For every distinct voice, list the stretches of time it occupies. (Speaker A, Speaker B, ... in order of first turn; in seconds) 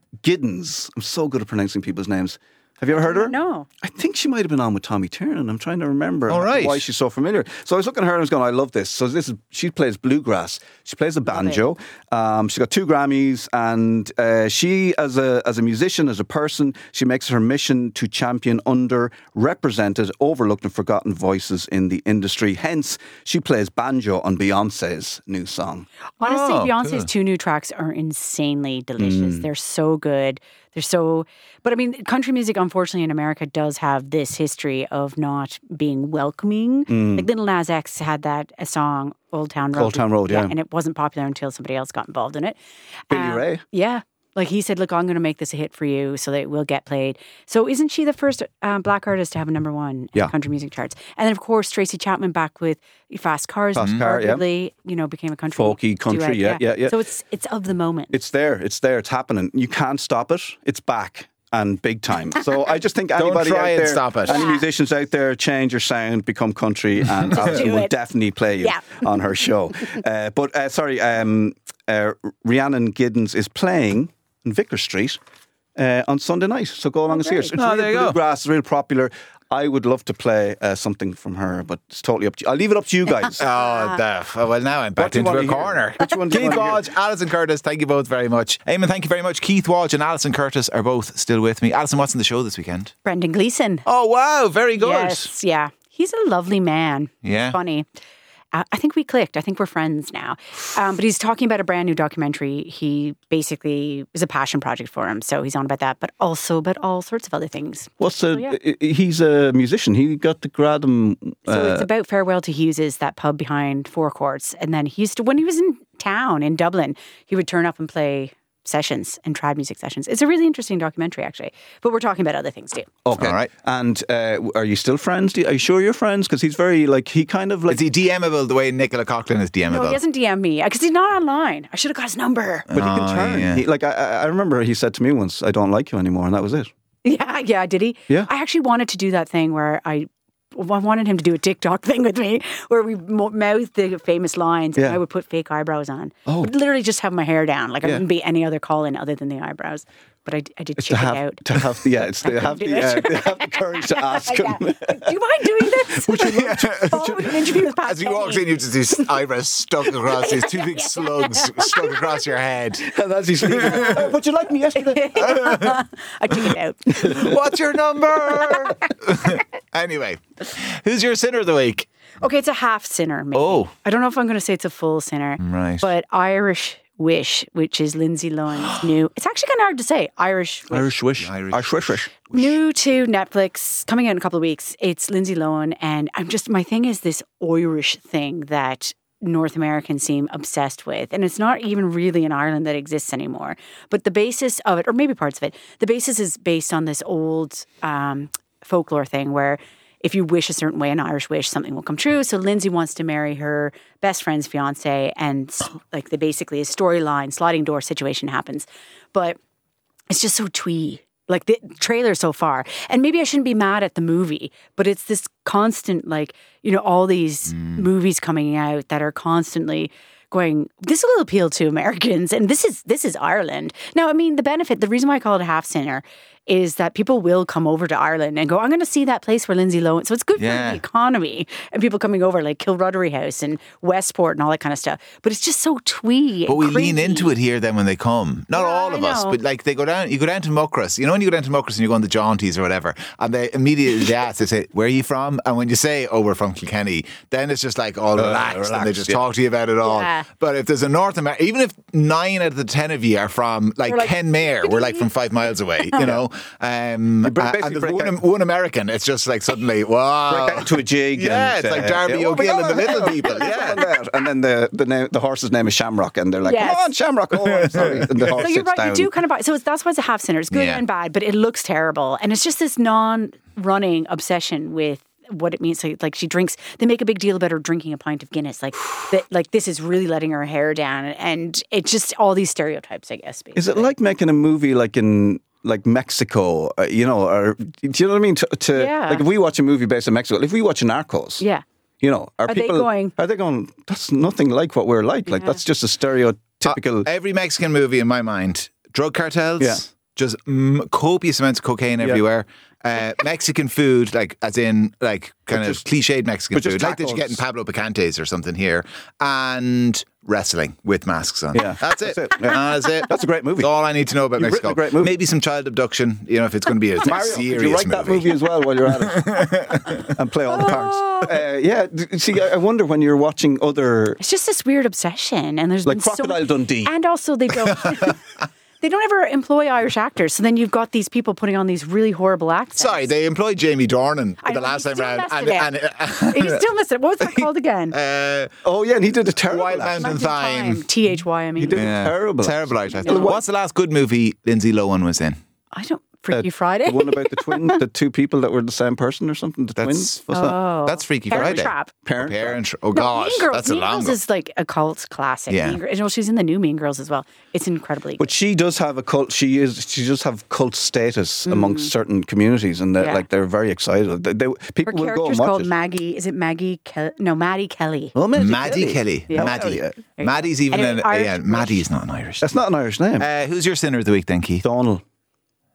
Speaker A: 0.2-25.9, 29.0-29.5, 36.9-37.3, 39.7-40.5, 43.1-43.6, 53.7-54.4, 55.5-56.9, 58.1-75.2, 75.8-83.4, 85.0-86.9, 108.0-111.9, 123.0-127.8, 132.7-136.7, 146.2-146.5, 150.8-157.4, 162.8-165.6, 166.9-167.3, 173.3-173.7, 180.7-182.1, 248.1-249.2, 257.2-258.2, 260.3-269.1, 283.6-291.4, 292.0-297.1, 305.5-305.8, 306.5-307.4, 311.5-313.7, 314.4-315.2, 317.0-324.2, 325.8-326.9, 338.6-340.1, 341.6-343.4, 346.3-350.6, 351.3-352.6, 358.2-365.7, 368.1-370.0, 372.4-373.3, 374.6-375.0
Speaker B: 2.9-3.7, 11.2-11.6, 26.2-42.6, 43.1-58.1, 64.3-64.6, 67.3-68.0, 68.6-69.0, 77.1-77.5, 83.5-84.0, 93.0-93.8, 94.7-97.9, 98.5-108.6, 111.5-122.9, 129.7-132.7, 137.0-151.5, 152.2-159.1, 159.9-162.2, 164.8-167.2, 172.2-180.9, 182.3-209.4, 210.1-237.3, 238.5-239.4, 249.8-250.2, 253.9-255.1, 266.4-266.9, 268.4-283.9, 288.7-289.2, 292.4-293.1, 295.3-295.6, 320.5-321.4, 324.2-328.2, 328.8-333.1, 334.4-335.7, 336.2-337.9, 340.0-341.9, 343.1-343.4, 345.7-347.8, 350.3-351.9, 352.9-358.3, 361.5-361.9, 363.0-363.3, 364.9-368.1, 369.3-369.6, 370.2-371.8
Speaker C: 6.3-6.9, 26.2-27.1, 63.1-64.4, 77.6-78.2, 83.4-92.9, 93.9-95.3, 97.2-97.6, 123.2-123.5, 127.7-130.0, 132.7-133.6, 156.2-164.1, 165.2-165.8, 166.9-171.9, 175.4-175.9, 181.2-182.5, 217.5-217.8, 230.4-230.8, 236.5-263.9, 267.5-268.3, 270.5-270.8, 296.6-320.1, 327.7-328.1, 332.8-336.7, 337.2-338.5, 339.5-340.9, 341.7-345.4, 349.8-354.2, 355.5-355.8, 368.3-372.5, 373.2-374.6